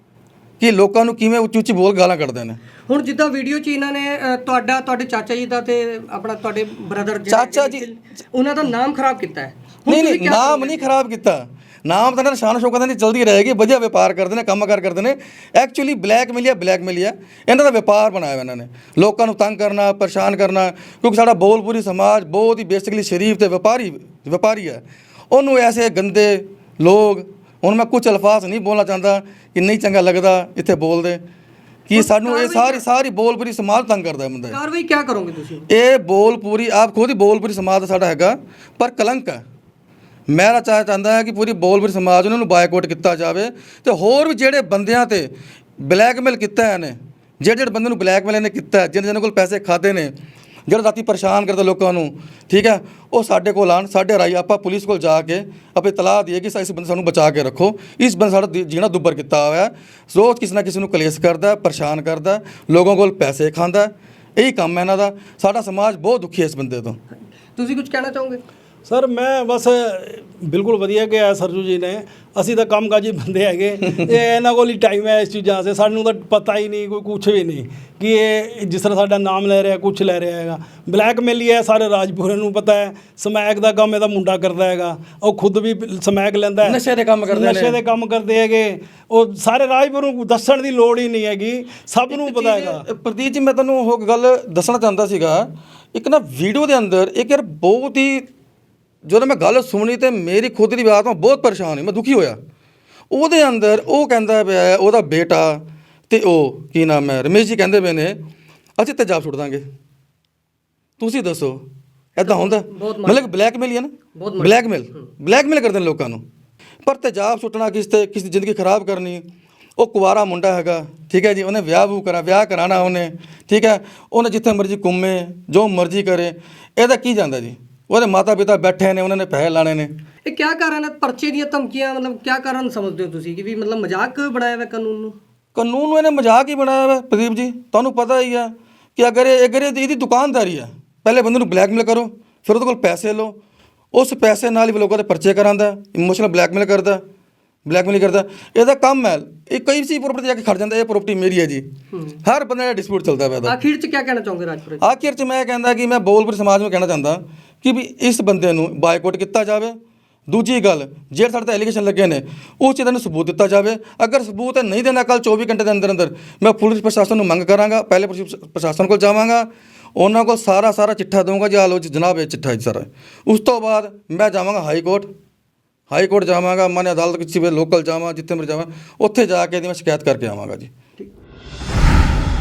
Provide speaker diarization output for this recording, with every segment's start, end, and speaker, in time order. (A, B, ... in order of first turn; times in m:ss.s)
0:00.6-0:02.6 A
0:02.9-0:10.9 B
0:07.3-0:07.9 A
0:09.9-0:31.2 A
0:31.9-0:34.6 A
0:31.9-0:32.8 B
0:34.5-0:35.7 B
0:35.7-0:39.4 A
0:40.3-0:50.1 A
0:50.7-1:07.0 A
1:07.6-1:08.4 B
1:08.9-1:32.8 C
1:26.6-1:27.8 A
1:32.1-1:38.3 A
1:39.1-1:42.4 A
1:43.1-1:48.2 A
1:48.8-1:49.6 A
1:51.0-1:51.6 A
1:52.2-1:56.2 A
1:52.2-1:53.3 B
1:54.2-1:55.0 B
1:56.8-1:59.2 A
1:59.8-2:09.9 A
2:10.3-2:15.2 B
2:15.6-2:23.4 A
2:23.9-2:27.0 A
2:27.7-2:31.6 A
2:31.9-2:32.2 B
2:32.2-2:33.6 A
2:33.4-2:34.8 B
2:34.8-2:39.8 A
2:40.3-2:55.1 A
2:55.9-3:00.7 A